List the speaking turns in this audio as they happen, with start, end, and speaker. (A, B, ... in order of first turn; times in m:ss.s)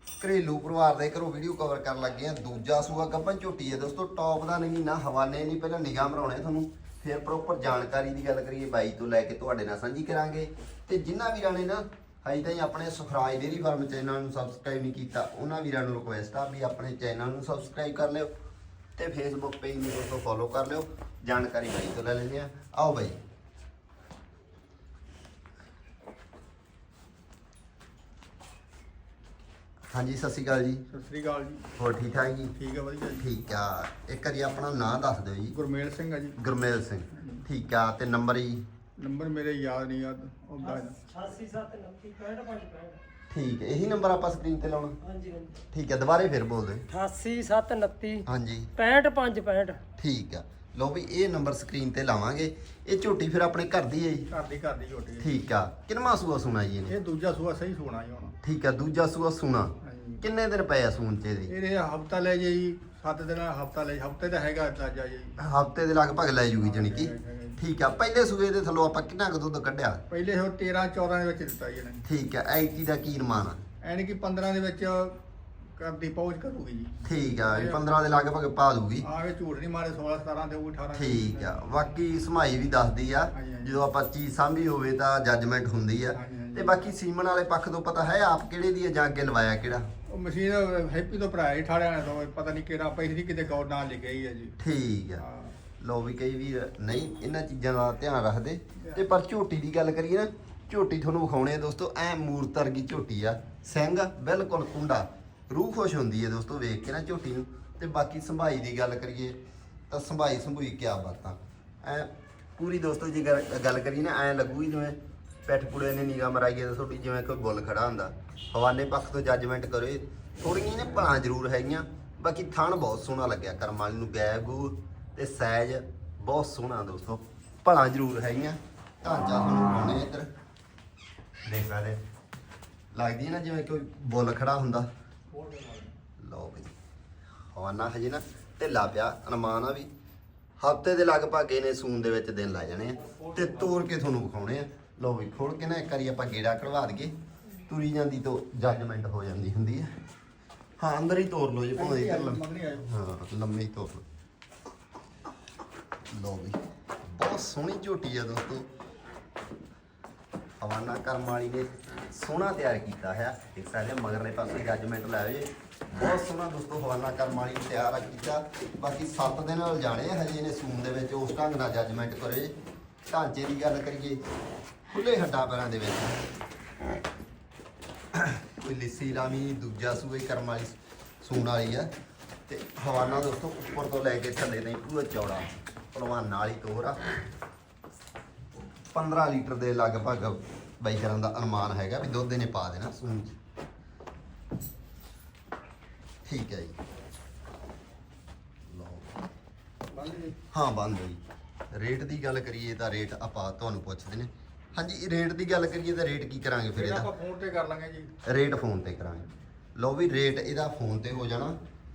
0:00.2-0:18.3 A
0:19.0-0:23.2 A
0:29.9-0:30.8 A
0:30.9-0:31.7 B
0:31.8-0:32.5 A
0:32.5-0:33.3 B
0:33.2-0:35.5 A
0:35.5-0:36.4 B
0:36.4-0:38.6 A
0:37.1-0:37.4 B
0:39.0-0:41.0 B
0:40.6-0:43.0 C
0:43.3-0:45.0 A
0:45.0-0:45.6 C
0:45.7-0:46.8 A
0:46.9-0:48.2 C
0:48.2-0:48.7 A
0:48.8-0:49.8 C
0:50.0-0:54.3 A
0:54.3-0:55.4 B
0:55.2-0:56.9 A
0:56.9-0:58.4 B
0:58.4-1:01.5 A
0:59.8-1:00.2 B
1:01.5-1:05.4 B
1:05.4-1:10.0 A
1:06.6-1:07.6 B
1:10.1-1:12.1 B
1:12.0-1:13.6 A
1:13.8-1:15.2 B
1:15.8-1:17.9 B
1:17.0-1:19.1 A
1:19.0-1:21.6 B
1:20.9-1:29.9 A
1:23.3-1:23.8 B
1:26.1-1:26.8 B
1:30.1-1:34.6 B
1:34.6-1:35.2 A
1:35.2-1:35.6 B
1:35.8-1:49.4 A
1:38.8-1:39.0 B
1:49.9-2:10.3 A
2:11.4-2:12.0 A
2:12.9-2:14.9 A
2:15.3-2:16.0 B
2:16.2-2:16.7 A
2:17.5-2:19.9 A
2:20.6-2:27.1 A
2:23.0-2:23.8 B
2:27.6-2:29.9 A
2:30.8-2:34.0 A
2:31.7-2:32.9 B
2:36.1-2:38.7 A
2:40.6-2:52.5 A
2:53.1-2:54.2 A
2:54.9-2:56.2 A
2:58.1-3:01.9 A
3:02.5-3:07.1 A
3:08.9-3:13.4 A
3:16.2-3:16.8 A
3:18.7-3:19.1 A
3:19.9-3:20.4 B
3:20.5-3:21.2 A
3:21.7-3:27.1 A
3:26.7-3:28.1 B
3:28.2-3:31.6 A